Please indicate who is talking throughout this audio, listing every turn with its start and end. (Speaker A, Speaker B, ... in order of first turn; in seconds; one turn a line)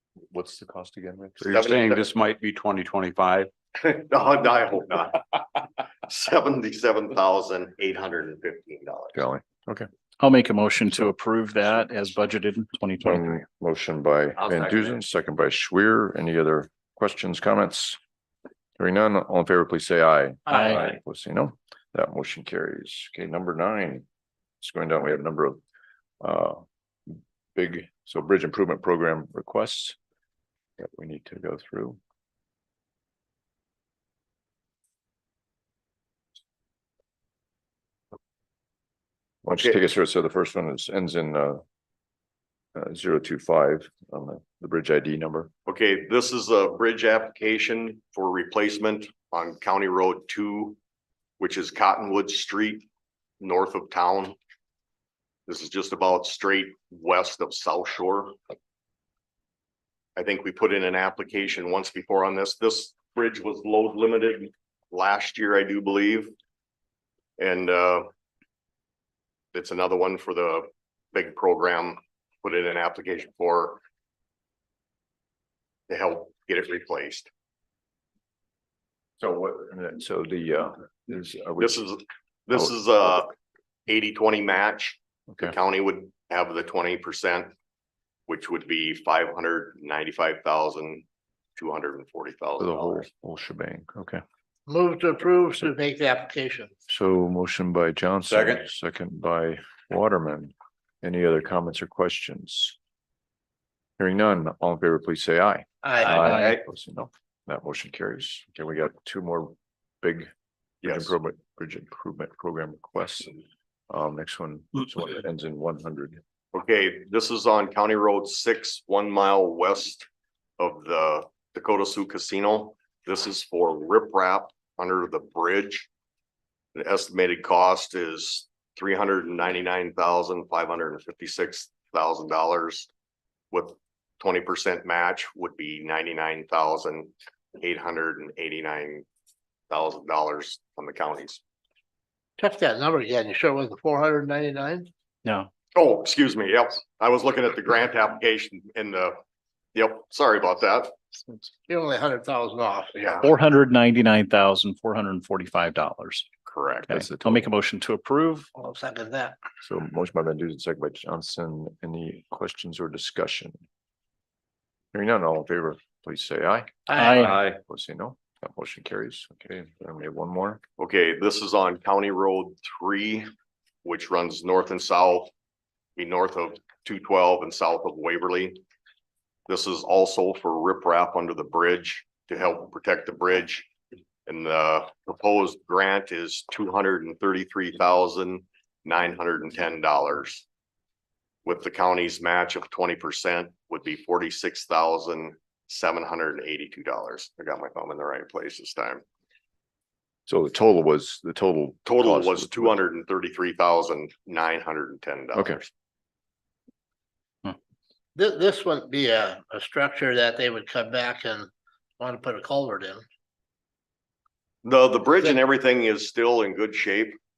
Speaker A: 0.3-1.5
Speaker B: 1.4-3.5
Speaker C: 1.5-2.0
Speaker C: 3.8-9.2
Speaker A: 9.1-9.9
Speaker D: 10.2-13.4
Speaker A: 13.0-18.0
Speaker A: 18.8-24.0
Speaker D: 20.5-20.9
Speaker A: 24.6-25.6
Speaker A: 26.2-30.0
Speaker A: 30.8-32.0
Speaker A: 39.4-41.6
Speaker A: 42.7-45.5
Speaker C: 45.6-50.8
Speaker C: 51.4-52.9
Speaker C: 53.4-54.4
Speaker C: 55.5-58.4
Speaker C: 60.1-66.3
Speaker C: 67.4-68.1
Speaker C: 69.5-73.8
Speaker C: 75.9-77.3
Speaker A: 79.2-81.8
Speaker C: 81.6-83.3
Speaker C: 83.9-87.5
Speaker C: 88.3-91.0
Speaker C: 91.6-93.1
Speaker A: 92.6-94.2
Speaker E: 94.7-96.7
Speaker A: 96.9-102.8
Speaker A: 104.0-110.3
Speaker E: 105.8-106.5
Speaker D: 106.2-106.5
Speaker C: 110.8-111.1
Speaker A: 110.8-113.4
Speaker A: 113.9-116.2
Speaker C: 116.5-120.1
Speaker C: 120.6-125.9
Speaker C: 126.7-132.9
Speaker C: 133.5-139.1
Speaker C: 139.7-141.4
Speaker E: 142.4-144.9
Speaker D: 145.2-145.5
Speaker C: 145.7-149.2
Speaker C: 149.7-150.9
Speaker E: 151.7-153.2
Speaker C: 152.9-153.3
Speaker D: 153.2-156.3
Speaker C: 156.5-156.9
Speaker D: 156.9-158.5
Speaker A: 156.9-157.5
Speaker E: 158.5-159.4
Speaker A: 159.6-163.6
Speaker A: 164.9-170.6
Speaker E: 166.9-167.5
Speaker D: 166.9-167.4
Speaker C: 170.8-173.3
Speaker C: 173.8-175.3
Speaker C: 175.9-178.6
Speaker C: 179.5-183.7
Speaker C: 184.2-190.4
Speaker C: 191.4-199.0
Speaker A: 200.3-202.7
Speaker C: 201.8-205.7
Speaker A: 205.3-205.6
Speaker E: 208.1-211.5
Speaker E: 212.0-213.0
Speaker C: 214.6-217.2